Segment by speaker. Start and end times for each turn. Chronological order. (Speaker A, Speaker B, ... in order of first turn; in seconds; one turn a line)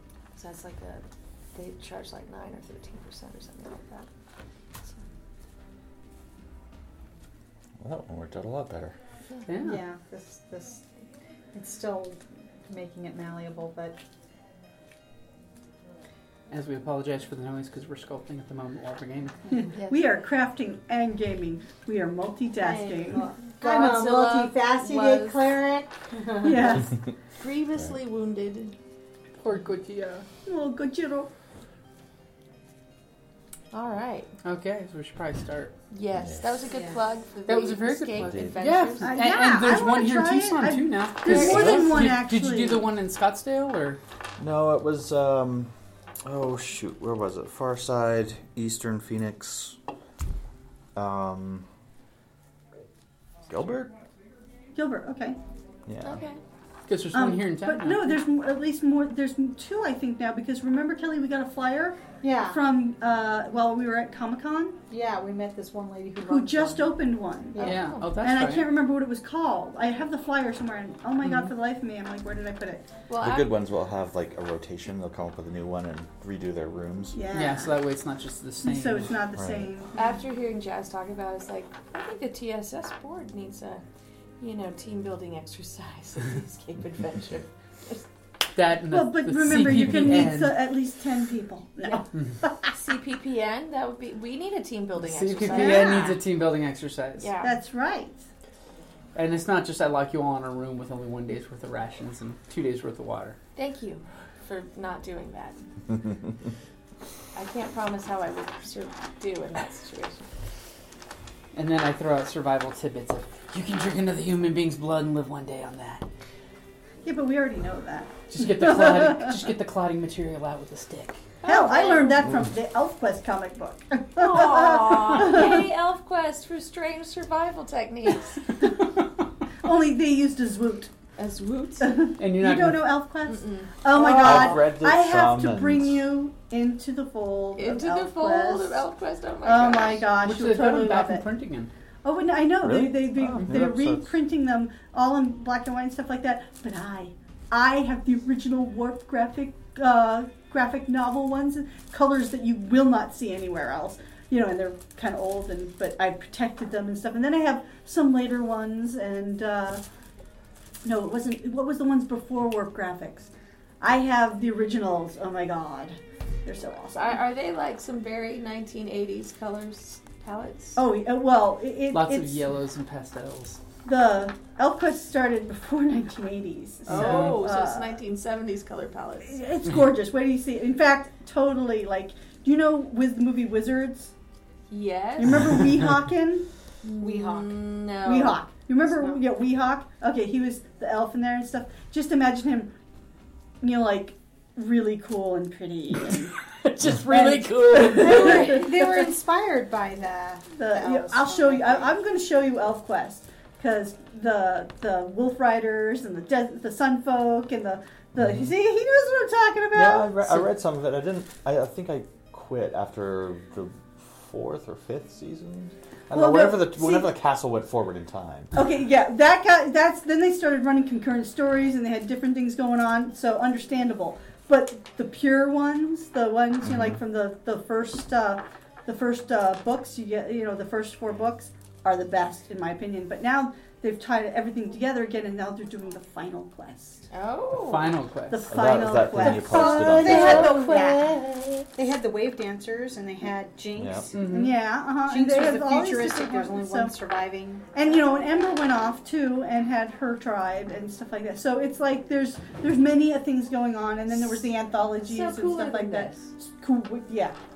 Speaker A: 0.3-4.1
Speaker B: 7.8-8.9
Speaker C: 9.5-9.8
Speaker D: 9.5-10.8
Speaker D: 11.5-14.0
Speaker C: 16.5-19.4
Speaker E: 19.5-23.3
Speaker A: 19.7-20.1
Speaker D: 22.6-26.8
Speaker A: 22.7-25.6
Speaker E: 26.4-27.0
Speaker A: 27.4-28.7
Speaker C: 29.4-30.2
Speaker E: 30.4-31.3
Speaker A: 33.7-34.3
Speaker C: 34.4-35.7
Speaker A: 35.9-39.1
Speaker C: 37.5-44.0
Speaker B: 38.3-38.6
Speaker E: 39.0-42.9
Speaker A: 41.2-42.0
Speaker B: 44.4-45.7
Speaker B: 46.2-49.8
Speaker B: 50.9-51.7
Speaker B: 53.5-53.9
Speaker E: 54.7-55.4
Speaker B: 55.9-56.2
Speaker A: 56.0-56.4
Speaker C: 56.9-58.2
Speaker E: 57.1-64.8
Speaker D: 62.2-62.6
Speaker D: 64.9-66.9
Speaker E: 66.2-72.9
Speaker D: 67.5-67.9
Speaker A: 67.6-68.0
Speaker C: 67.6-68.7
Speaker C: 71.2-71.5
Speaker A: 73.1-73.6
Speaker B: 73.2-77.2
Speaker E: 77.1-77.8
Speaker C: 77.3-79.1
Speaker E: 78.6-80.1
Speaker B: 79.3-79.7
Speaker A: 80.0-83.8
Speaker A: 84.4-88.0
Speaker C: 88.5-90.6
Speaker E: 88.9-92.7
Speaker A: 92.7-96.2
Speaker C: 95.0-97.3
Speaker E: 95.5-96.2
Speaker A: 97.2-97.6
Speaker E: 97.4-98.2
Speaker C: 99.1-103.4
Speaker A: 103.5-105.6
Speaker A: 107.3-110.3
Speaker C: 111.5-116.0
Speaker E: 117.0-119.4
Speaker C: 118.3-121.3
Speaker A: 121.4-122.2
Speaker E: 121.4-125.7
Speaker A: 124.2-128.5
Speaker C: 128.6-129.0
Speaker E: 129.6-130.9
Speaker A: 131.2-132.0
Speaker E: 131.8-138.8
Speaker C: 132.2-132.9
Speaker A: 133.3-134.7
Speaker B: 134.2-136.0
Speaker A: 137.6-140.1
Speaker E: 139.4-141.2
Speaker C: 140.2-141.7
Speaker E: 142.0-159.8
Speaker B: 142.6-144.1
Speaker E: 160.8-167.2
Speaker A: 166.9-170.8
Speaker E: 170.8-172.4
Speaker C: 171.9-173.6
Speaker E: 173.8-178.0
Speaker C: 176.9-177.4
Speaker A: 176.9-179.4
Speaker E: 179.2-184.1
Speaker A: 184.7-185.6
Speaker E: 185.2-186.4
Speaker A: 186.8-188.4
Speaker D: 187.0-187.6
Speaker E: 188.0-192.7
Speaker E: 193.6-196.4
Speaker C: 196.6-198.6
Speaker E: 197.0-199.0
Speaker D: 197.9-201.9
Speaker E: 200.5-210.3
Speaker B: 209.7-218.5
Speaker E: 216.1-217.1
Speaker E: 218.5-237.1
Speaker B: 226.6-227.0
Speaker A: 237.1-237.9
Speaker C: 237.5-238.5
Speaker E: 238.3-240.9
Speaker B: 238.5-240.5
Speaker D: 239.2-241.1
Speaker C: 239.8-241.7
Speaker D: 241.8-244.2
Speaker B: 243.8-244.1
Speaker C: 244.1-244.6
Speaker E: 244.2-246.9
Speaker D: 245.0-247.7
Speaker E: 247.7-257.4
Speaker A: 255.0-256.3